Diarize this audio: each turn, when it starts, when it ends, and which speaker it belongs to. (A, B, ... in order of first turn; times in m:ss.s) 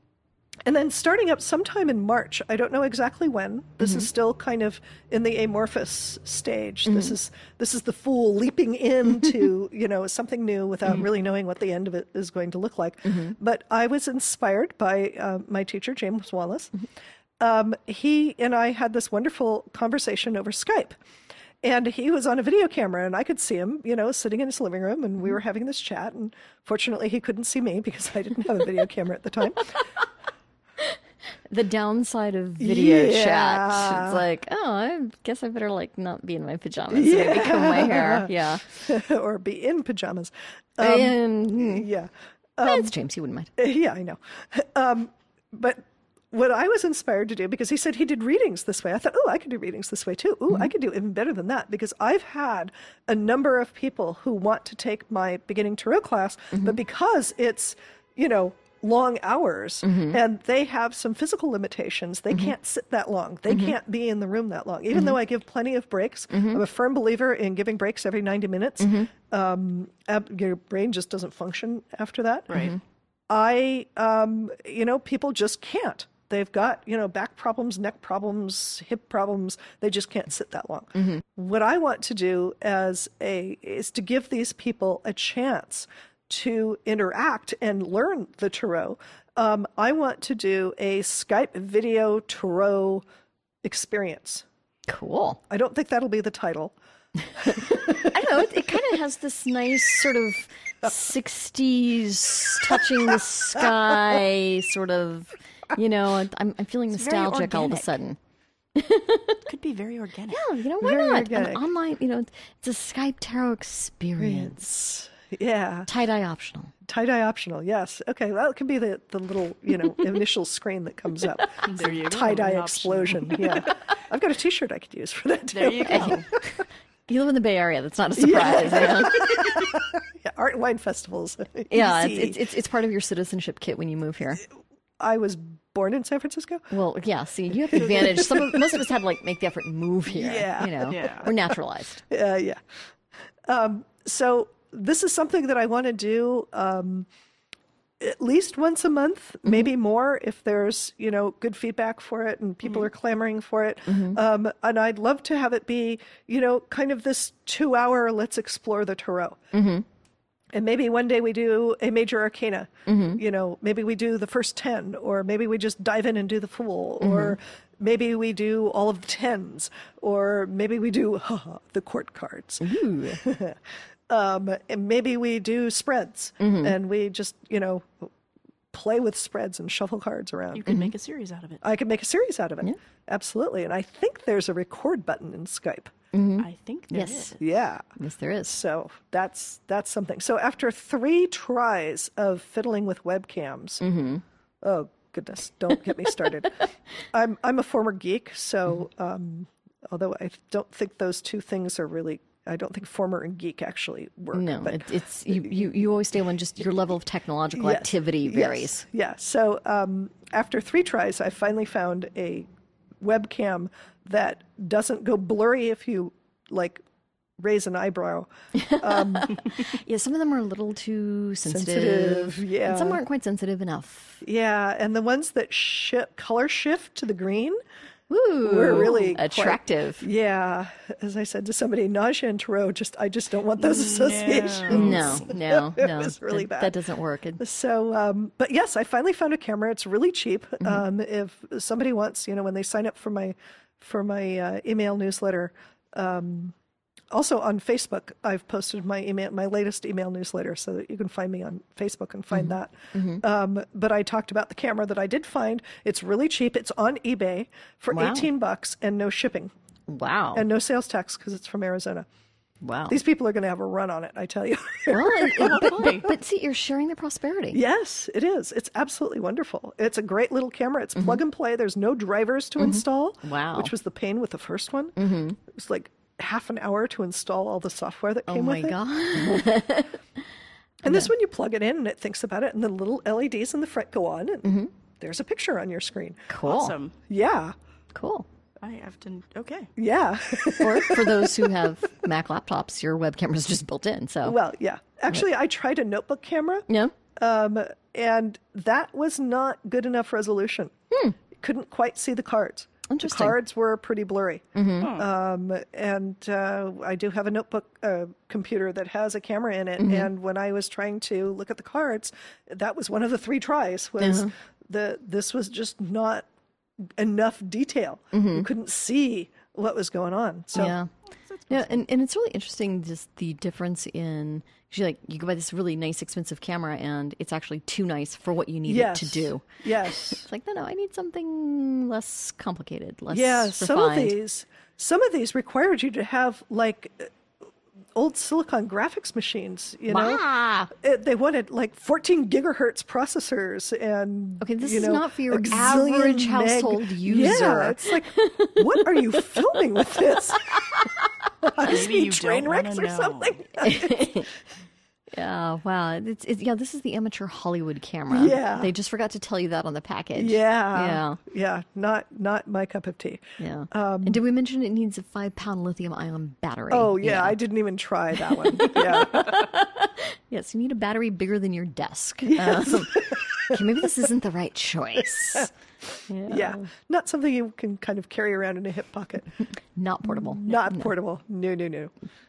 0:00.6-0:16.7 A
0:06.9-0:07.2 B
0:13.1-0:13.4 B
0:17.4-0:21.0 A
0:21.6-0:29.8 A
0:31.5-0:38.7 B
0:32.6-0:34.2 A
0:36.9-0:42.9 A
0:40.8-0:41.9 B
0:42.6-0:43.5 B
0:43.6-1:12.7 A
0:59.8-1:00.2 B
1:03.5-1:03.8 B
1:06.3-1:06.6 B
1:08.8-1:09.1 B
1:12.5-1:12.8 C
1:13.3-1:33.0 A
1:33.6-1:34.4 A
1:34.9-1:35.4 B
1:35.5-1:36.8 A
1:37.4-1:38.3 A
1:37.4-1:48.2 B
1:42.6-1:44.2 A
1:46.9-1:48.0 C
1:48.8-1:49.4 B
1:49.5-1:50.4 C
1:50.3-1:54.6 B
1:50.8-1:51.6 A
1:54.2-1:55.9 A
1:55.9-1:56.7 B
1:56.8-2:06.5 A
2:01.6-2:03.8 C
2:05.5-2:06.3 C
2:05.9-2:06.4 B
2:07.1-2:09.7 B
2:08.2-2:12.4 A
2:11.7-2:14.4 B
2:15.0-2:16.7 A
2:16.7-2:22.0 B
2:17.7-2:18.8 A
2:20.1-2:21.6 A
2:20.9-2:21.3 C
2:22.1-2:22.6 A
2:23.5-2:27.1 A
2:28.0-2:39.4 A
2:33.9-2:34.2 B
2:39.5-2:39.8 B
2:40.5-2:58.1 A
2:42.9-2:43.2 B
2:47.0-2:47.4 B
2:52.6-2:53.2 B
2:56.4-2:56.8 B
2:58.7-3:00.7 A
3:00.5-3:01.6 C
3:00.7-3:00.9 B
3:01.6-3:05.9 A
3:06.1-3:07.4 B
3:06.4-3:07.4 C
3:07.4-3:07.8 A
3:08.0-3:08.6 B
3:08.5-3:13.8 A
3:13.8-3:14.2 B
3:14.6-3:25.7 A
3:24.3-3:28.8 B
3:27.6-3:32.5 A
3:33.0-3:36.8 A
3:37.4-3:39.4 A
3:38.6-3:44.2 B
3:41.4-3:43.0 A
3:44.2-3:47.6 A
3:48.1-3:50.1 B
3:48.4-3:56.7 A
3:53.6-3:55.3 C
3:54.7-3:57.4 B
3:57.4-4:06.6 A
4:07.1-4:19.5 A
4:12.3-4:13.2 B
4:17.9-4:18.3 B
4:19.9-4:20.5 B
4:20.3-4:22.1 A
4:22.6-4:23.0 B
4:22.9-4:26.1 A
4:24.9-4:27.6 B
4:25.4-4:26.1 C
4:27.5-4:39.5 A
4:32.6-4:33.7 B
4:35.0-4:35.4 B
4:38.3-4:40.0 B
4:40.8-4:46.3 A
4:40.9-4:41.1 B
4:44.4-4:44.7 B
4:46.3-4:46.8 B
4:46.4-4:47.0 C
4:47.1-4:47.6 A
4:48.0-4:48.3 B
4:48.6-4:49.7 C
4:49.8-4:51.7 A
4:50.6-4:54.4 B
4:54.2-5:00.7 A
4:56.7-4:56.9 B
5:00.9-5:01.2 B
5:01.4-5:16.3 A
5:02.9-5:03.4 B
5:04.6-5:04.9 B
5:04.8-5:05.1 C
5:09.8-5:10.1 B
5:14.0-5:14.3 B
5:17.0-5:20.8 A
5:18.1-5:18.5 B
5:20.6-5:20.9 B
5:21.5-5:34.2 B
5:28.7-5:30.2 A
5:33.1-5:37.1 A
5:38.0-5:50.6 A
5:39.9-5:40.7 B
5:44.4-5:51.0 B
5:51.4-5:54.2 A
5:51.6-5:53.5 C
5:53.6-5:54.3 B
5:55.1-6:01.2 B
5:58.1-5:58.7 A
6:00.2-6:04.2 A
6:03.4-6:07.4 B
6:06.7-6:09.4 A
6:08.2-6:15.5 B
6:12.2-6:13.9 A
6:16.1-6:16.7 B
6:16.3-6:19.3 A
6:19.8-6:20.9 B
6:20.0-6:21.9 A